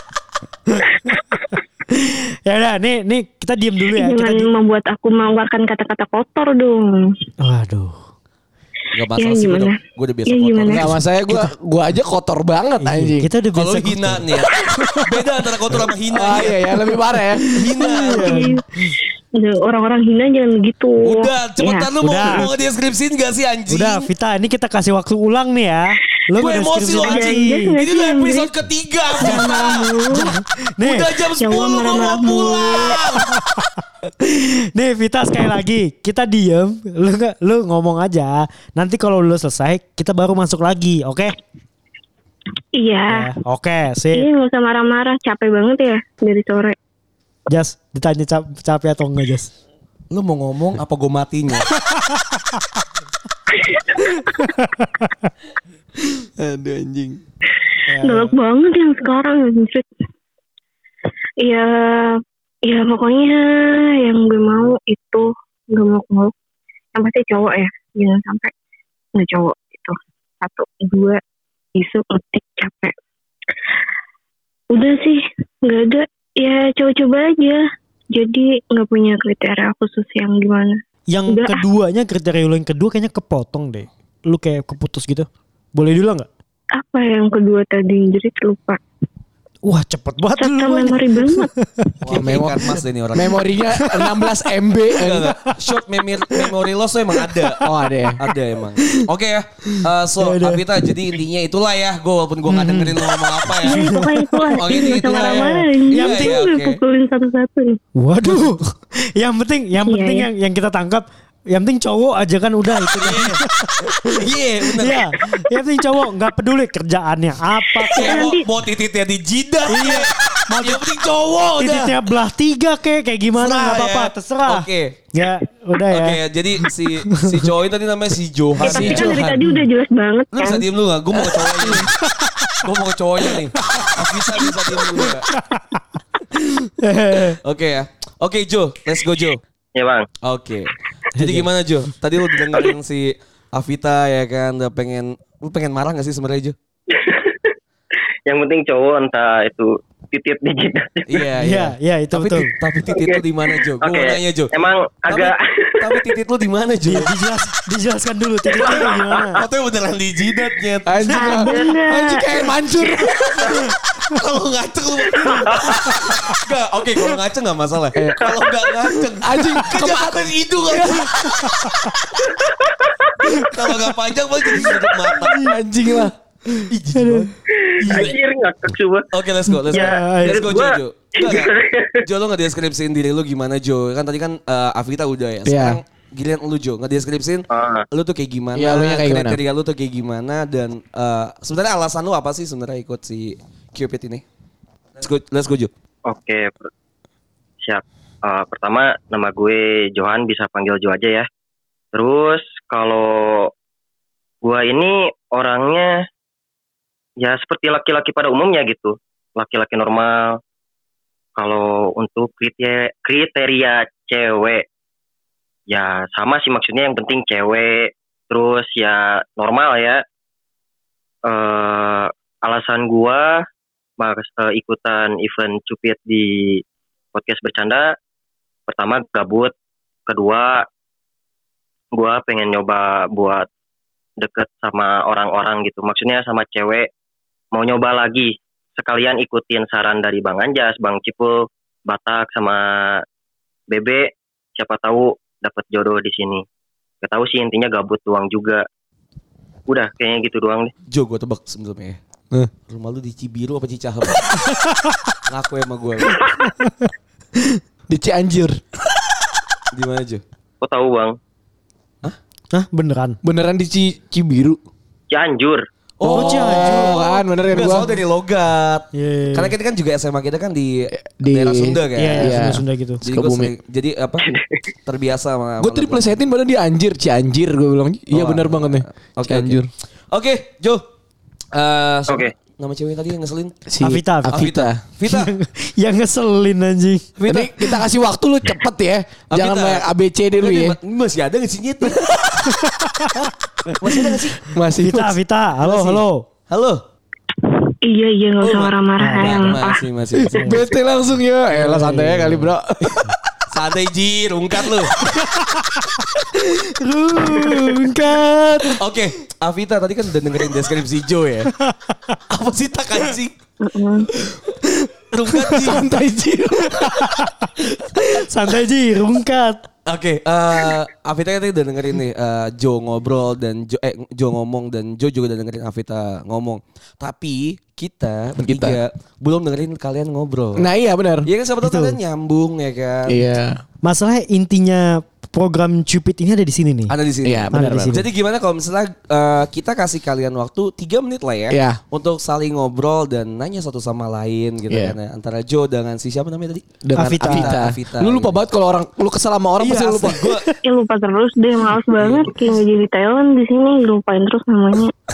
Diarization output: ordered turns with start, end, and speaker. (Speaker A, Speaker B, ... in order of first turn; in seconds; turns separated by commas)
Speaker A: 0.8-4.5, Speaker B: 3.9-7.0, Speaker A: 7.4-8.0, Speaker C: 8.9-10.9, Speaker B: 9.2-10.9, Speaker D: 10.7-13.3, Speaker A: 12.8-15.0, Speaker C: 13.5-16.7, Speaker D: 16.1-17.6, Speaker C: 17.5-18.4, Speaker B: 17.8-18.6, Speaker A: 17.8-18.9, Speaker B: 19.4-22.5, Speaker C: 21.0-24.1, Speaker A: 22.0-22.5, Speaker A: 23.7-27.7, Speaker C: 26.4-29.9, Speaker B: 26.9-28.5, Speaker B: 29.2-30.3, Speaker A: 29.2-31.1, Speaker C: 30.8-33.3, Speaker B: 31.4-33.1, Speaker A: 34.2-41.3, Speaker B: 42.7-43.3, Speaker A: 43.1-44.3, Speaker B: 44.1-46.8, Speaker A: 47.5-49.5, Speaker C: 50.1-51.7, Speaker A: 54.2-55.1, Speaker D: 56.4-57.2, Speaker A: 57.9-58.4, Speaker B: 58.0-59.9, Speaker B: 61.4-66.3, Speaker B: 66.9-68.5, Speaker B: 69.2-71.2, Speaker B: 71.8-72.9, Speaker B: 74.7-81.6, Speaker A: 81.1-86.3, Speaker B: 86.7-88.8, Speaker A: 89.6-92.4, Speaker B: 90.4-91.5, Speaker C: 92.0-93.5, Speaker D: 92.0-95.3, Speaker A: 93.8-94.3, Speaker C: 95.0-103.9, Speaker A: 97.2-97.5, Speaker D: 97.6-98.2, Speaker A: 98.8-99.0, Speaker A: 99.7-101.1, Speaker A: 102.5-105.6, Speaker B: 103.6-107.8, Speaker C: 104.5-106.8, Speaker A: 108.0-113.5, Speaker B: 109.8-110.3, Speaker C: 112.9-115.4, Speaker A: 114.8-118.3, Speaker C: 117.8-122.0, Speaker B: 118.0-118.5, Speaker A: 119.7-120.8, Speaker A: 121.5-127.4, Speaker C: 123.3-125.0, Speaker C: 125.8-129.3, Speaker B: 128.6-130.7, Speaker D: 128.6-129.4, Speaker C: 130.3-131.9, Speaker A: 131.3-132.6, Speaker C: 132.6-135.3, Speaker A: 133.8-137.4, Speaker C: 137.3-139.4, Speaker E: 139.8-140.1, Speaker C: 140.2-146.6, Speaker A: 141.1-141.5, Speaker E: 146.9-147.5, Speaker E: 148.2-151.2, Speaker C: 151.1-157.1, Speaker A: 151.4-152.5, Speaker E: 152.8-156.2, Speaker A: 156.9-159.4, Speaker C: 158.6-161.6, Speaker D: 160.8-163.4, Speaker B: 161.1-162.3, Speaker A: 161.2-161.5, Speaker C: 164.1-171.7, Speaker E: 165.3-165.7, Speaker A: 166.0-166.4, Speaker D: 167.9-168.2, Speaker D: 169.2-171.9, Speaker E: 172.7-173.1, Speaker A: 173.2-173.5, Speaker C: 173.4-176.1, Speaker A: 175.2-175.5, Speaker D: 175.4-176.1, Speaker C: 176.7-178.2, Speaker A: 176.9-177.3, Speaker E: 177.6-179.1, Speaker C: 179.1-181.5, Speaker A: 179.6-180.5, Speaker E: 179.7-182.0, Speaker C: 182.0-194.2, Speaker D: 185.4-185.8, Speaker E: 187.5-187.8, Speaker D: 188.5-189.4, Speaker C: 195.0-195.7, Speaker E: 196.1-196.7, Speaker E: 197.6-201.3, Speaker E: 201.9-203.5, Speaker E: 204.4-205.9, Speaker E: 207.2-210.2, Speaker E: 211.4-214.6, Speaker E: 215.7-220.0, Speaker E: 221.2-223.3, Speaker E: 224.0-226.6, Speaker E: 227.1-227.9, Speaker E: 228.7-229.5, Speaker E: 230.1-230.7, Speaker E: 231.9-233.5, Speaker E: 234.2-236.9, Speaker E: 237.5-243.0, Speaker E: 243.7-246.4, Speaker E: 247.0-248.6, Speaker E: 249.7-250.7, Speaker C: 250.9-252.0, Speaker C: 252.7-254.4, Speaker C: 255.3-256.3, Speaker A: 256.4-256.7, Speaker D: 257.9-259.4, Speaker C: 259.7-260.2, Speaker E: 260.6-261.1, Speaker A: 262.5-263.2, Speaker D: 263.2-264.6, Speaker E: 265.1-265.6, Speaker C: 266.0-272.4, Speaker D: 266.0-267.9, Speaker A: 266.0-267.0, Speaker A: 268.9-269.5, Speaker D: 271.1-273.5, Speaker A: 272.0-273.0, Speaker C: 273.0-274.3, Speaker E: 274.2-274.6, Speaker C: 274.9-276.1, Speaker D: 275.6-279.7, Speaker C: 278.1-280.8, Speaker C: 281.5-283.6, Speaker D: 283.7-284.8, Speaker A: 283.8-284.5, Speaker C: 284.3-285.3, Speaker A: 285.1-287.1, Speaker C: 287.2-287.7, Speaker D: 287.3-290.8, Speaker C: 289.3-292.3, Speaker D: 291.9-292.4, Speaker C: 293.8-294.5, Speaker D: 294.0-295.2, Speaker A: 294.8-296.2, Speaker C: 295.6-296.8, Speaker B: 297.8-299.8, Speaker C: 298.4-300.7, Speaker A: 299.0-299.6, Speaker D: 300.2-303.3, Speaker A: 300.3-300.6, Speaker A: 301.5-302.5, Speaker C: 303.5-304.9, Speaker A: 305.2-305.7, Speaker A: 306.7-308.8, Speaker D: 307.2-307.9, Speaker C: 308.8-311.5, Speaker A: 311.6-312.1, Speaker C: 312.3-313.3, Speaker B: 313.6-314.1, Speaker C: 315.1-315.9, Speaker D: 315.4-317.2, Speaker A: 316.8-319.6, Speaker C: 319.9-330.6, Speaker D: 328.4-328.8, Speaker D: 330.6-331.3, Speaker C: 331.2-333.2, Speaker A: 331.6-332.0, Speaker D: 333.1-333.6, Speaker A: 333.8-336.9, Speaker C: 336.9-348.4, Speaker D: 337.2-338.0, Speaker A: 337.5-338.1, Speaker D: 341.5-341.8, Speaker D: 344.7-344.9, Speaker D: 346.8-350.2, Speaker A: 346.9-347.5, Speaker C: 349.6-350.5, Speaker B: 350.6-354.9, Speaker C: 351.9-352.4